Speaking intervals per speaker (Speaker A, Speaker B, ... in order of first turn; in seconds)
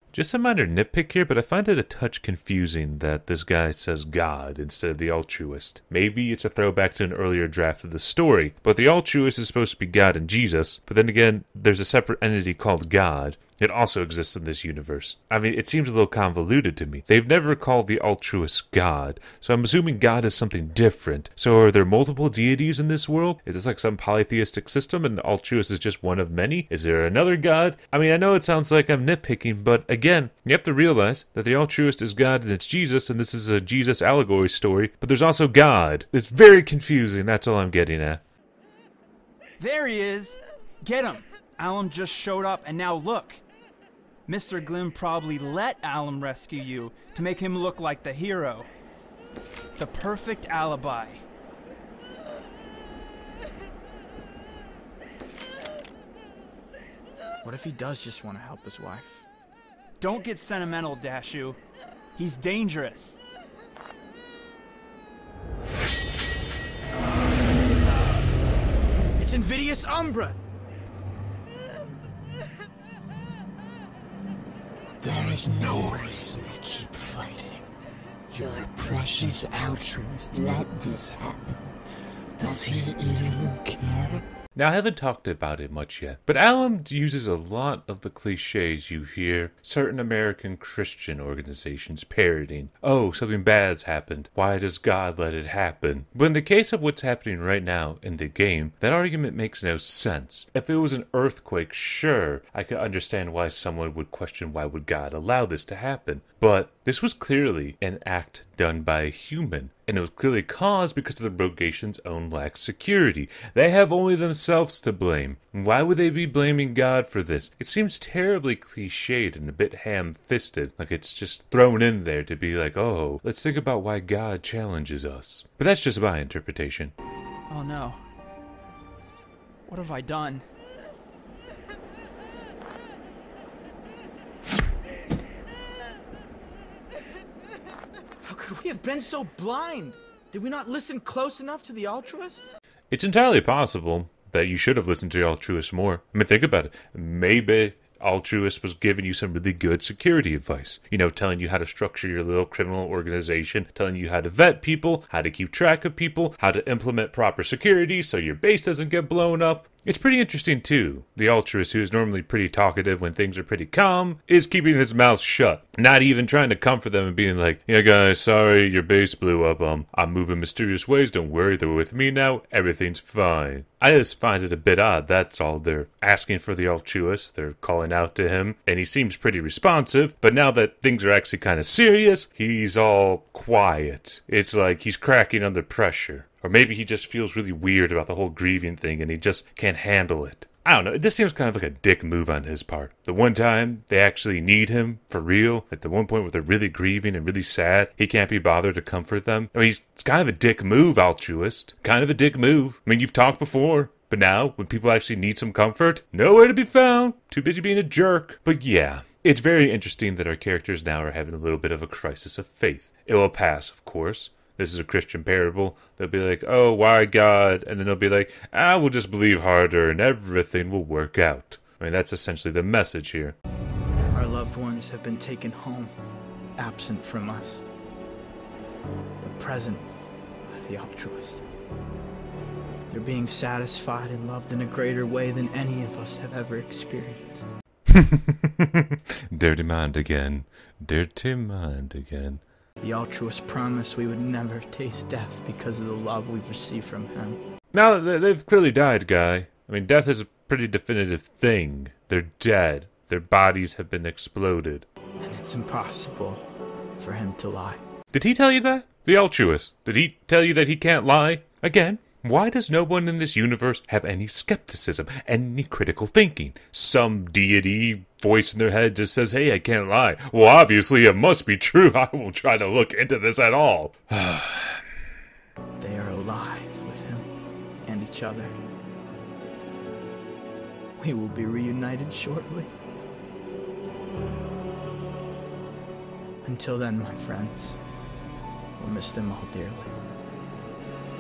Speaker A: 0.1-38.2, 84.5-126.9, 142.9-223.3, 237.9-242.4, 247.7-254.9, 258.1-274.8
Speaker B: 39.6-43.4, 44.3-48.7, 49.8-51.2, 60.0-61.6, 62.2-63.2, 127.5-128.0, 129.7-130.5
Speaker C: 57.4-59.2, 69.2-70.4, 138.2-142.5, 224.1-225.9, 226.6-227.6, 229.2-229.9, 230.5-231.4, 232.9-237.5, 242.8-247.4, 255.2-257.8, 275.8-277.3, 277.9-278.6, 281.0-282.7, 286.4-287.8, 288.8-289.9
Speaker D: 75.0-77.7, 78.3-81.7, 82.4-84.2